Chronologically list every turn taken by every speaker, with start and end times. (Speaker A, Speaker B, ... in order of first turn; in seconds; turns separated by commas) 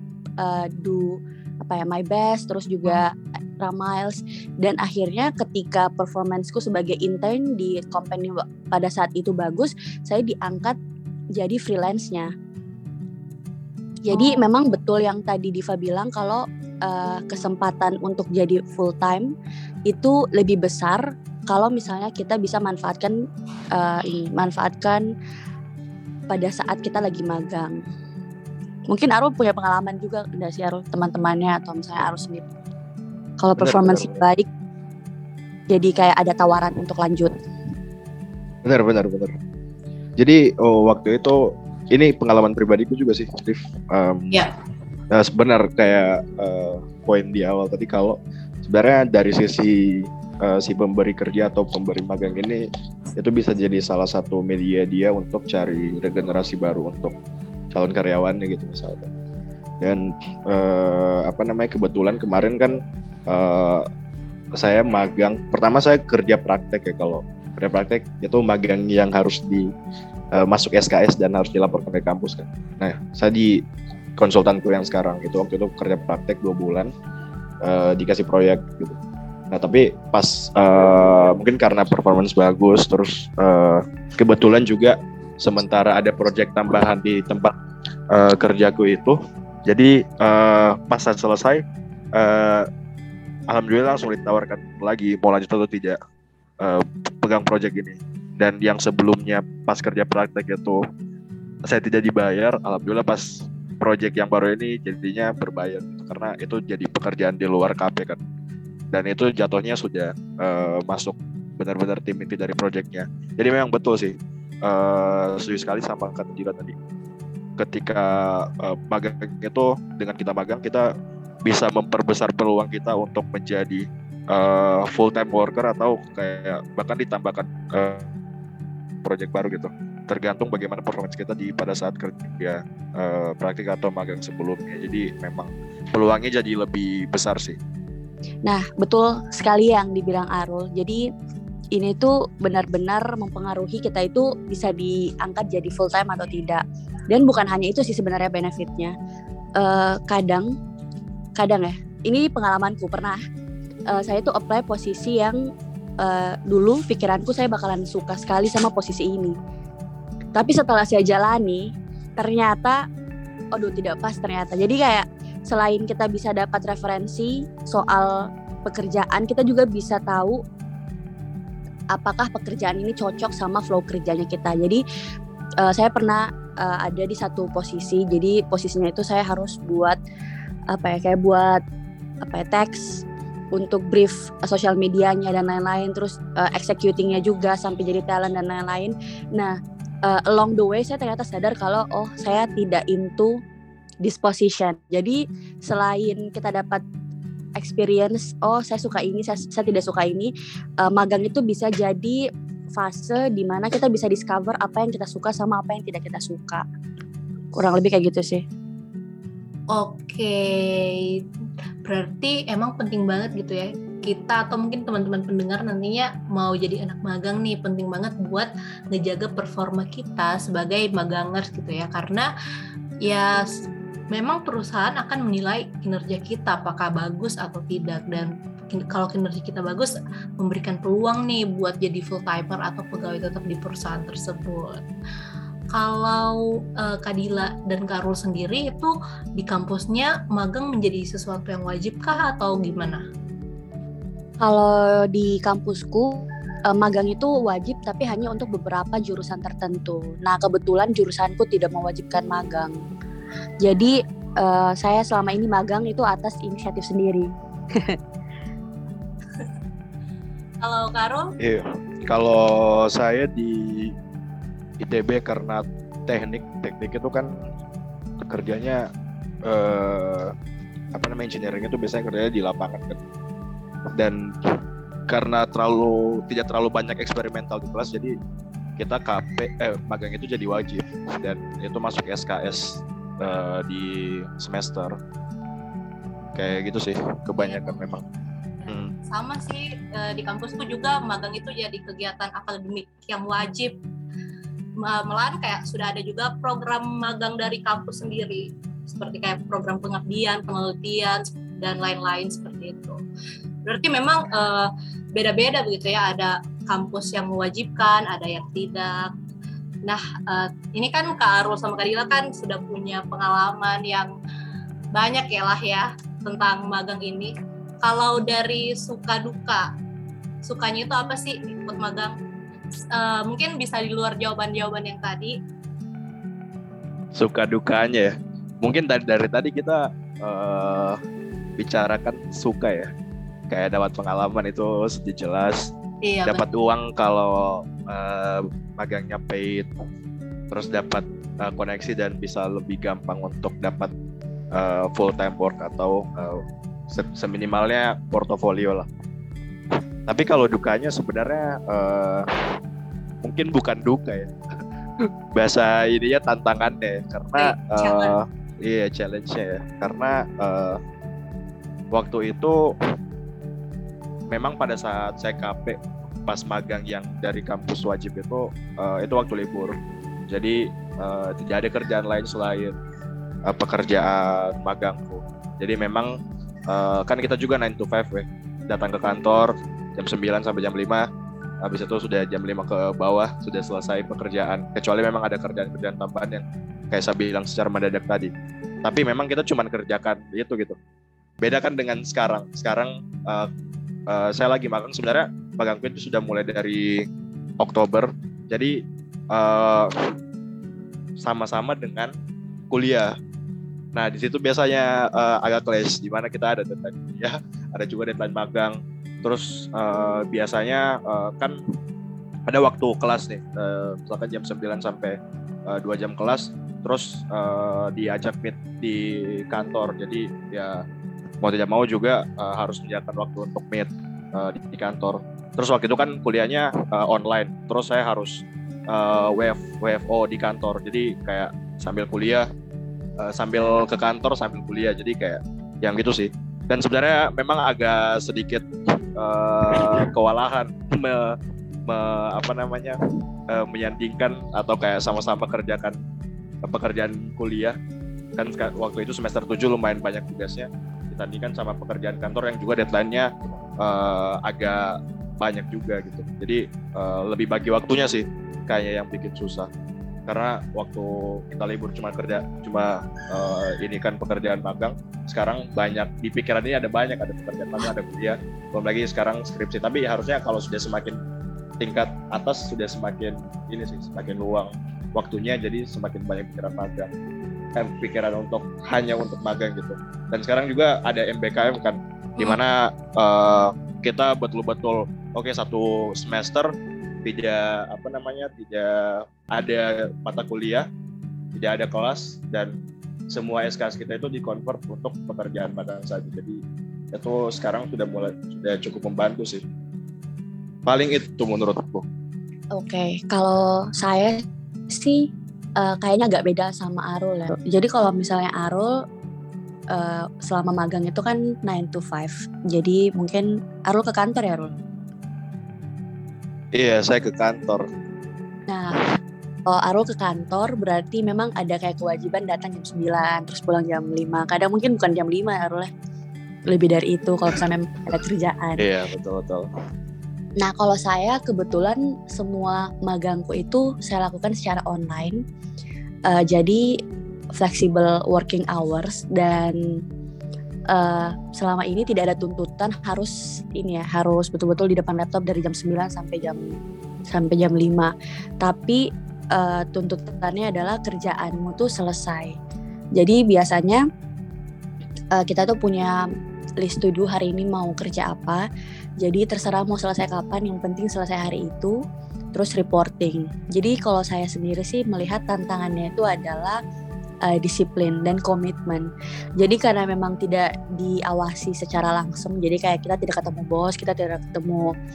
Speaker A: 0.4-10.8, Speaker A: 11.4-12.3, Speaker A: 14.1-19.3, Speaker B: 14.1-14.4, Speaker A: 19.9-23.1, Speaker A: 23.8-25.0, Speaker A: 26.3-27.8, Speaker A: 28.9-32.5, Speaker A: 33.4-34.5, Speaker C: 33.6-34.1, Speaker A: 35.7-37.3, Speaker C: 38.6-39.3, Speaker C: 40.2-44.3, Speaker C: 45.1-52.6, Speaker C: 53.2-57.1, Speaker C: 57.7-59.1, Speaker C: 59.8-63.9, Speaker C: 64.6-69.7, Speaker C: 70.3-73.6, Speaker C: 74.2-76.9, Speaker C: 77.6-79.0, Speaker C: 79.5-87.5, Speaker C: 88.1-91.6, Speaker C: 92.2-92.7, Speaker C: 93.5-96.0, Speaker C: 96.6-100.8, Speaker C: 101.6-108.2, Speaker C: 108.9-116.7, Speaker C: 117.6-120.9, Speaker C: 121.4-128.1, Speaker C: 129.0-137.6, Speaker A: 138.5-141.1, Speaker A: 141.8-148.9, Speaker A: 149.6-150.5, Speaker A: 151.4-153.2, Speaker A: 153.9-155.4, Speaker A: 156.0-159.4, Speaker A: 160.4-162.8, Speaker A: 163.6-168.1, Speaker A: 168.7-170.4, Speaker A: 171.9-174.8, Speaker A: 175.6-180.0, Speaker A: 180.7-181.6, Speaker A: 182.2-183.0, Speaker A: 183.6-189.6, Speaker A: 190.1-193.4, Speaker A: 194.0-196.8, Speaker A: 197.6-200.3, Speaker A: 200.8-202.2, Speaker A: 202.8-206.6, Speaker A: 207.6-208.4, Speaker B: 209.7-211.2, Speaker B: 211.8-222.3, Speaker B: 223.1-223.6, Speaker B: 224.1-234.8, Speaker B: 235.7-243.0, Speaker A: 244.4-252.8, Speaker A: 253.6-258.0, Speaker B: 260.6-261.4, Speaker C: 261.4-263.9, Speaker C: 264.8-267.3, Speaker C: 268.3-268.9, Speaker C: 269.5-270.3, Speaker C: 270.9-273.0, Speaker C: 274.0-274.6, Speaker C: 275.1-278.1, Speaker C: 278.8-285.0, Speaker C: 286.4-288.0, Speaker B: 287.4-288.0, Speaker B: 288.6-293.8, Speaker C: 288.7-288.9, Speaker B: 294.8-303.0, Speaker B: 303.6-309.1, Speaker B: 309.8-314.1, Speaker B: 314.9-319.7, Speaker B: 320.4-322.1, Speaker B: 322.9-325.4, Speaker C: 327.1-331.0, Speaker C: 331.6-332.9, Speaker C: 333.5-335.7, Speaker B: 336.0-336.4, Speaker C: 336.3-339.7, Speaker C: 340.5-343.9, Speaker C: 344.6-348.9, Speaker C: 350.1-352.3, Speaker C: 353.2-354.3, Speaker C: 355.3-360.8, Speaker B: 357.4-358.1, Speaker C: 361.9-362.6, Speaker C: 364.3-369.7, Speaker C: 370.3-372.8, Speaker C: 373.5-376.1, Speaker C: 376.7-381.1, Speaker C: 381.6-388.3, Speaker C: 388.8-390.8, Speaker C: 391.4-393.5, Speaker C: 394.1-397.0, Speaker C: 397.6-398.8, Speaker C: 399.3-399.9, Speaker C: 401.2-402.1, Speaker C: 402.7-403.1, Speaker C: 403.9-411.6, Speaker C: 412.5-415.2, Speaker C: 415.7-420.8, Speaker C: 421.4-432.5, Speaker C: 433.2-441.4, Speaker C: 441.9-443.0, Speaker C: 443.5-446.0, Speaker C: 446.6-447.8, Speaker C: 448.4-453.3, Speaker C: 453.8-459.7, Speaker C: 460.3-471.2, Speaker C: 471.8-477.1, Speaker C: 477.8-486.7, Speaker C: 487.2-490.9, Speaker C: 491.6-492.7, Speaker C: 493.3-496.6, Speaker C: 497.1-499.6, Speaker C: 500.9-502.1, Speaker A: 502.8-505.3, Speaker A: 505.8-508.9, Speaker A: 509.9-514.7, Speaker C: 516.8-517.9, Speaker A: 518.7-519.0, Speaker A: 519.7-525.9, Speaker A: 526.7-528.8, Speaker C: 528.8-529.7, Speaker A: 530.6-535.4, Speaker A: 536.3-536.9, Speaker A: 537.6-539.8, Speaker A: 540.9-546.6, Speaker A: 547.3-548.1, Speaker A: 548.6-549.0, Speaker A: 549.5-552.5, Speaker A: 553.2-554.0, Speaker A: 555.4-556.2, Speaker A: 556.8-558.6, Speaker A: 559.2-561.9, Speaker A: 562.5-566.8, Speaker A: 567.5-569.1, Speaker A: 569.6-574.9